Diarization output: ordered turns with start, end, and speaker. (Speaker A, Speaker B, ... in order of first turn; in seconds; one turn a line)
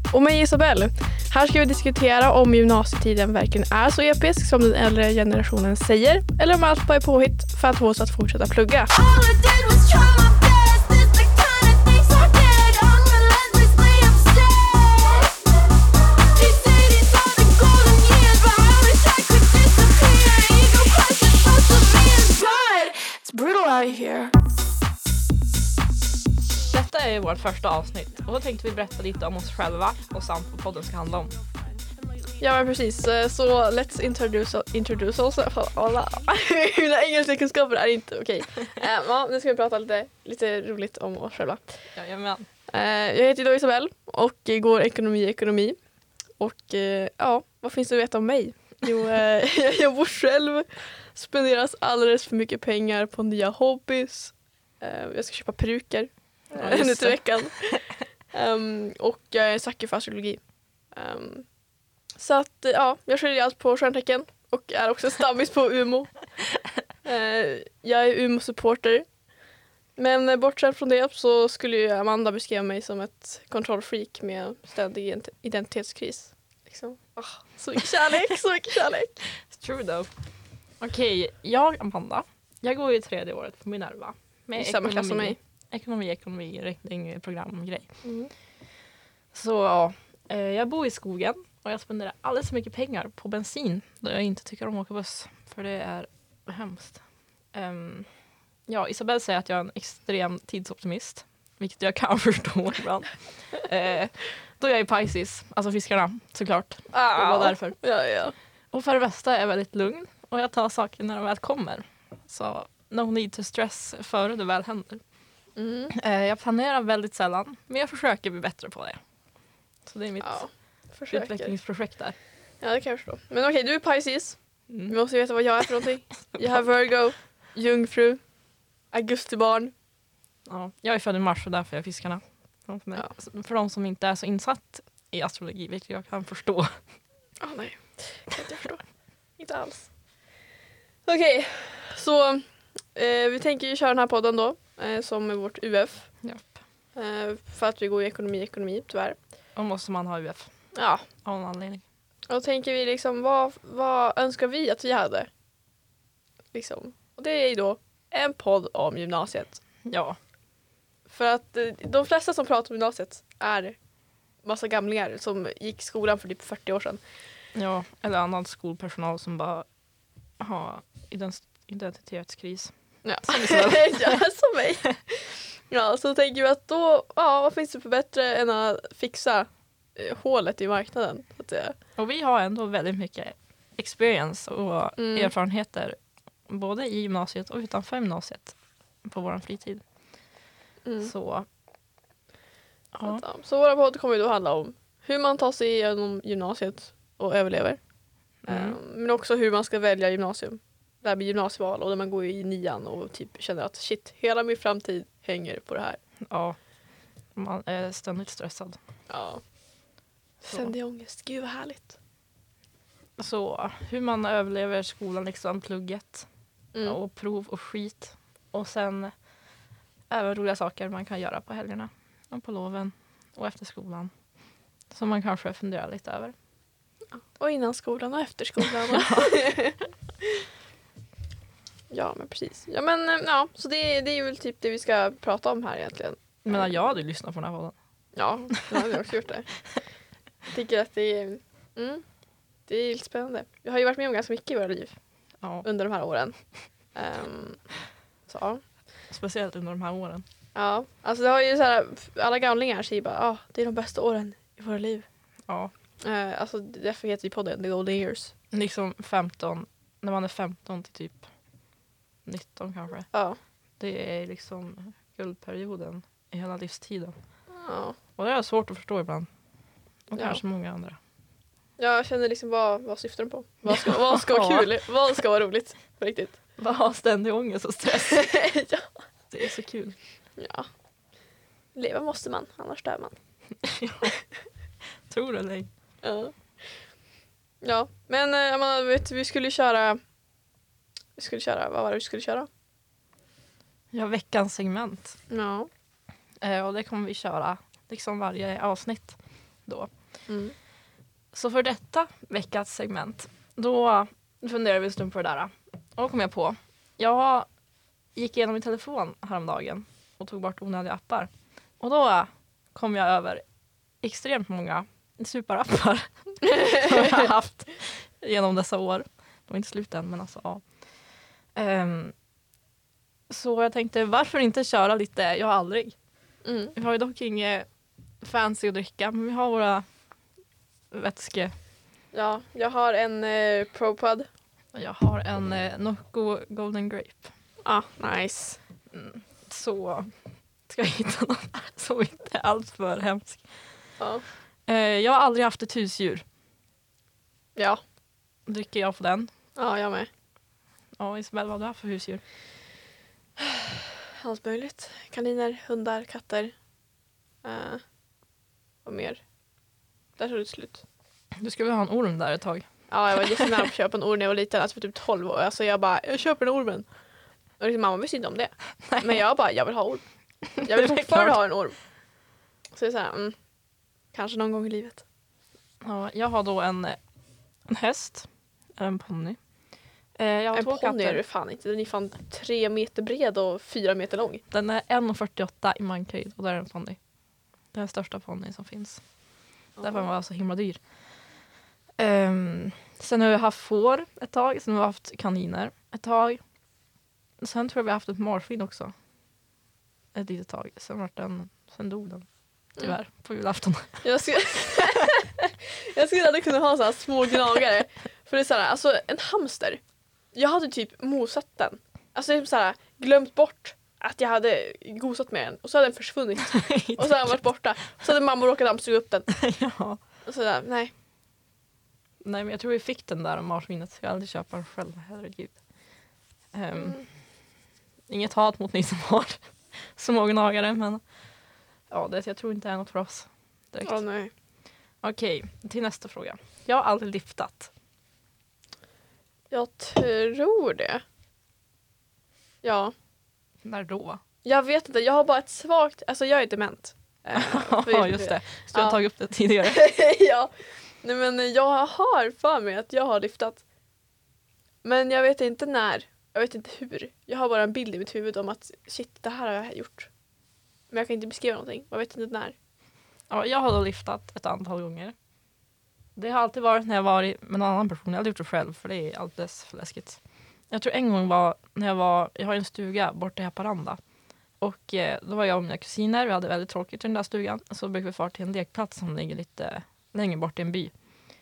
Speaker A: 0.1-8.9
Speaker B: 8.9-15.5
Speaker B: 16.3-24.3
Speaker C: 26.7-31.3
Speaker B: 31.9-32.4
Speaker A: 32.4-41.8
Speaker C: 41.9-42.5
Speaker A: 42.7-45.8
Speaker A: 46.4-60.4
Speaker C: 56.6-57.3
Speaker A: 61.0-61.5
Speaker A: 62.2-66.1
Speaker A: 67.0-69.1
Speaker A: 70.0-79.2
Speaker C: 77.8-78.2
Speaker C: 79.3-80.1
Speaker C: 80.8-88.0
Speaker A: 84.6-85.4
Speaker A: 88.0-88.3
Speaker C: 89.3-97.0
Speaker C: 97.5-98.1
Speaker C: 98.7-107.8
Speaker A: 106.9-108.3
Speaker C: 108.7-115.0
Speaker A: 115.6-116.0
Speaker C: 115.9-119.0
Speaker C: 119.9-120.4
Speaker A: 120.2-121.5
Speaker C: 121.1-122.2
Speaker A: 122.6-128.2
Speaker C: 124.7-125.0
Speaker A: 128.9-129.7
Speaker C: 130.5-136.8
Speaker A: 137.4-138.8
Speaker A: 139.4-139.9
Speaker A: 141.1-146.1
Speaker A: 146.9-149.2
Speaker C: 149.6-150.5
Speaker A: 150.8-151.1
Speaker C: 151.2-151.8
Speaker A: 152.3-155.3
Speaker A: 156.5-159.6
Speaker C: 159.9-160.2
Speaker A: 161.1-163.8
Speaker A: 164.4-167.0
Speaker C: 167.6-169.7
Speaker C: 170.4-172.7
Speaker A: 173.1-181.8
Speaker C: 173.3-174.2
Speaker C: 182.0-186.0
Speaker A: 185.0-185.3
Speaker C: 186.5-189.8
Speaker A: 190.8-191.1
Speaker C: 191.0-191.5
Speaker C: 192.9-193.2
Speaker A: 193.1-197.8
Speaker C: 198.5-198.8
Speaker A: 198.5-206.0
Speaker C: 206.3-206.6
Speaker C: 207.3-208.8
Speaker A: 209.1-209.4
Speaker C: 210.4-210.7
Speaker A: 210.4-212.0
Speaker C: 213.2-216.3
Speaker C: 216.8-219.1
Speaker C: 220.1-224.1
Speaker C: 224.9-226.3
Speaker A: 227.3-229.9
Speaker C: 228.8-229.4
Speaker A: 231.9-236.8
Speaker C: 236.5-237.8
Speaker A: 238.2-239.5
Speaker C: 238.6-238.9
Speaker A: 240.5-242.0
Speaker A: 242.7-244.9
Speaker A: 245.6-246.4
Speaker A: 246.9-247.6
Speaker A: 248.3-248.6
Speaker C: 249.1-250.2
Speaker A: 250.6-255.1
Speaker A: 256.0-258.3
Speaker C: 258.5-261.2
Speaker C: 262.3-263.1
Speaker A: 263.1-263.4
Speaker C: 263.8-267.1
Speaker A: 267.5-268.0
Speaker C: 268.2-269.3
Speaker C: 270.1-271.0
Speaker A: 270.1-270.4
Speaker A: 271.8-276.4
Speaker C: 273.7-274.7
Speaker C: 276.6-278.3
Speaker A: 277.9-278.9
Speaker C: 279.3-280.0
Speaker A: 280.4-280.7
Speaker A: 281.8-283.2
Speaker C: 283.6-284.1
Speaker C: 285.1-285.7
Speaker A: 286.0-286.4
Speaker A: 287.6-290.0
Speaker A: 291.2-292.5
Speaker C: 293.9-295.2
Speaker A: 295.3-295.7
Speaker C: 296.4-299.9
Speaker A: 300.3-300.6
Speaker C: 301.3-307.5
Speaker C: 308.1-313.4
Speaker C: 314.0-320.6
Speaker A: 316.4-317.3
Speaker C: 321.6-322.1
Speaker C: 323.3-325.9
Speaker A: 326.4-326.8
Speaker C: 326.8-327.7
Speaker C: 328.2-329.9
Speaker C: 330.9-331.6
Speaker A: 332.1-334.3
Speaker C: 334.7-337.3
Speaker A: 337.6-338.6
Speaker C: 338.9-340.1
Speaker C: 340.7-343.4
Speaker A: 344.0-344.2
Speaker C: 344.7-346.2
Speaker A: 347.6-347.8
Speaker C: 348.5-349.3
Speaker A: 349.6-350.1
Speaker C: 351.0-352.2
Speaker A: 354.2-356.5
Speaker A: 357.4-357.8
Speaker A: 358.9-359.2
Speaker A: 360.2-360.8
Speaker C: 361.4-363.6
Speaker A: 362.9-366.9
Speaker A: 367.6-370.0
Speaker C: 368.9-369.2
Speaker C: 370.6-371.4
Speaker A: 370.6-371.8
Speaker A: 372.7-373.4
Speaker A: 374.1-375.1
Speaker C: 375.8-377.0
Speaker C: 377.7-379.4
Speaker C: 380.2-381.2
Speaker A: 380.5-384.4
Speaker C: 384.5-387.0
Speaker C: 387.7-389.0
Speaker A: 389.8-390.1
Speaker C: 389.8-390.8
Speaker C: 392.0-396.4
Speaker C: 397.4-398.9
Speaker C: 400.1-402.3
Speaker C: 402.8-404.0
Speaker A: 404.0-409.8
Speaker C: 404.8-405.1
Speaker A: 410.4-419.3
Speaker C: 416.5-417.4
Speaker C: 419.3-420.0
Speaker A: 420.3-420.9
Speaker C: 422.2-425.6
Speaker C: 426.5-427.0
Speaker A: 426.8-427.1
Speaker C: 428.1-431.0
Speaker C: 431.9-434.0
Speaker A: 433.8-434.3
Speaker C: 435.0-437.7
Speaker A: 439.5-441.0
Speaker A: 442.6-442.9
Speaker C: 443.6-444.2
Speaker A: 444.4-449.0
Speaker C: 447.4-449.9
Speaker A: 449.6-450.5
Speaker A: 451.0-453.6
Speaker A: 454.8-460.1
Speaker A: 460.9-462.6
Speaker C: 463.3-465.1
Speaker C: 466.2-474.0
Speaker C: 474.6-480.9